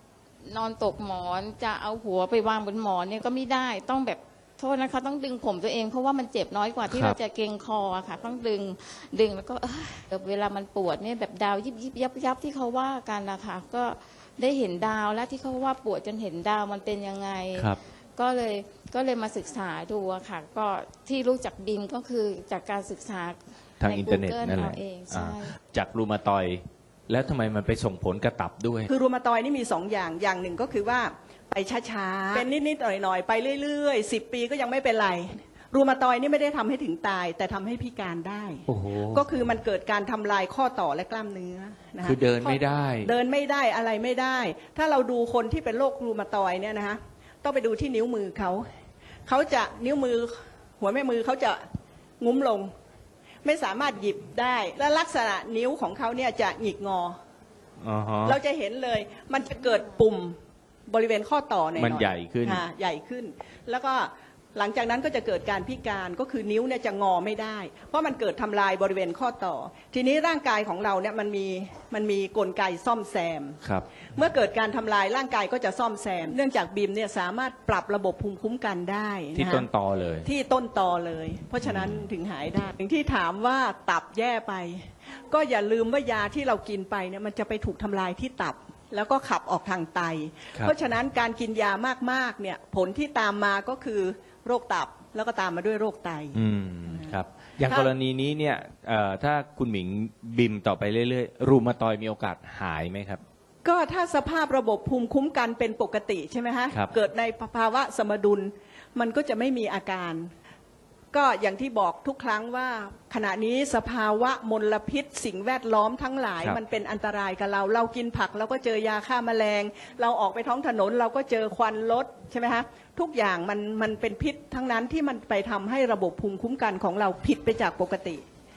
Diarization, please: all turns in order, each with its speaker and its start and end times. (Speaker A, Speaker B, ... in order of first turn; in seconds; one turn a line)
Speaker A: 0.4-25.6
Speaker B: 6.9-7.2
Speaker B: 23.8-28.9
Speaker C: 28.9-48.7
Speaker B: 38.7-39.2
Speaker B: 42.0-43.1
Speaker C: 49.2-51.6
Speaker C: 52.2-52.7
Speaker C: 53.4-57.2
Speaker B: 57.8-58.4
Speaker C: 58.2-60.4
Speaker C: 60.9-73.6
Speaker B: 61.8-62.6
Speaker C: 74.1-79.7
Speaker B: 79.3-80.3
Speaker C: 80.2-97.9
Speaker B: 81.6-82.1
Speaker B: 96.3-103.2
Speaker C: 103.6-110.3
Speaker C: 111.1-128.2